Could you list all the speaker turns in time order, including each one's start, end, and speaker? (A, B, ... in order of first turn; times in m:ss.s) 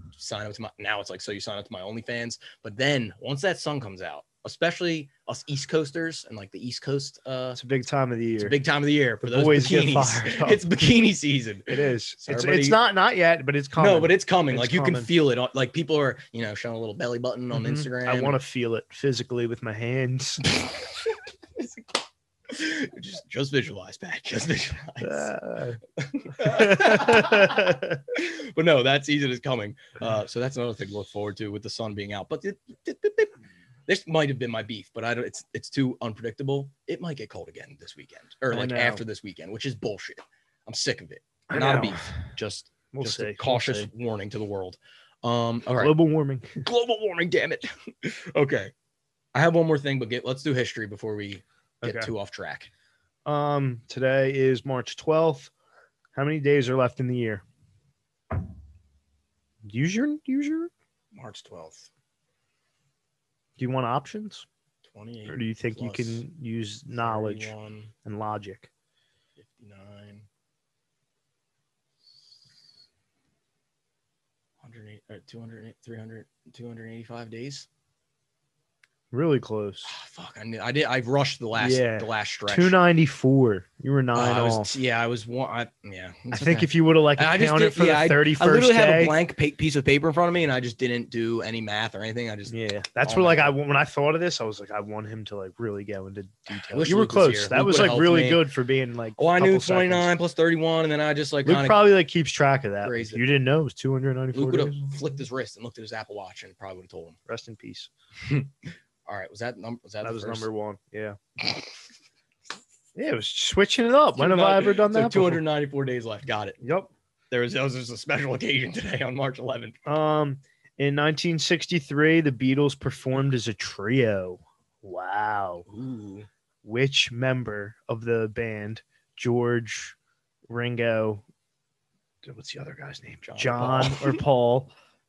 0:00.2-0:07.6 A
0:07.6-0:08.6 B
0:08.4-0:12.8 A
0:09.2-0:10.6 B
0:11.7-0:15.1 B
0:13.8-0:18.4 A
0:17.5-0:20.4 B
0:21.6-0:21.9 A
0:22.5-0:25.3 A
0:25.0-0:25.8 B
0:26.0-0:33.3 A
0:26.4-0:28.0 B
0:33.9-0:46.0 A
0:38.5-0:39.0 B
0:41.5-0:42.3 B
0:42.9-0:43.9 B
0:45.8-0:46.6 B
0:46.6-0:48.7 A
0:49.3-0:52.7 A
0:51.8-0:52.1 B
0:53.2-0:55.5 B
0:56.2-0:57.4 B
0:59.6-1:00.7 B
1:01.1-1:01.9 A
1:03.6-1:04.5 B
1:04.8-1:06.2 A
1:05.3-1:07.5 B
1:06.9-1:07.9 A
1:08.0-1:08.7 B
1:09.4-1:10.3 A
1:14.6-1:17.7 A
1:19.1-1:19.9 B
1:19.8-1:22.8 A
1:21.6-1:24.7 B
1:24.1-1:33.5 A
1:26.3-1:29.2 B
1:32.5-1:40.1 B
1:36.7-1:38.4 A
1:39.2-1:41.8 A
1:41.4-1:45.0 B
1:42.8-1:43.2 A
1:44.3-1:47.2 A
1:47.3-1:47.9 B
1:48.3-1:50.5 A
1:50.0-1:51.2 B
1:53.0-1:55.4 B
1:54.2-1:56.6 A
1:56.6-1:56.9 B
1:57.3-1:59.8 A
1:59.9-2:05.7 B
2:05.7-2:06.3 A
2:06.6-2:10.0 B
2:10.5-2:11.2 B
2:12.2-2:14.7 B
2:13.2-2:14.2 A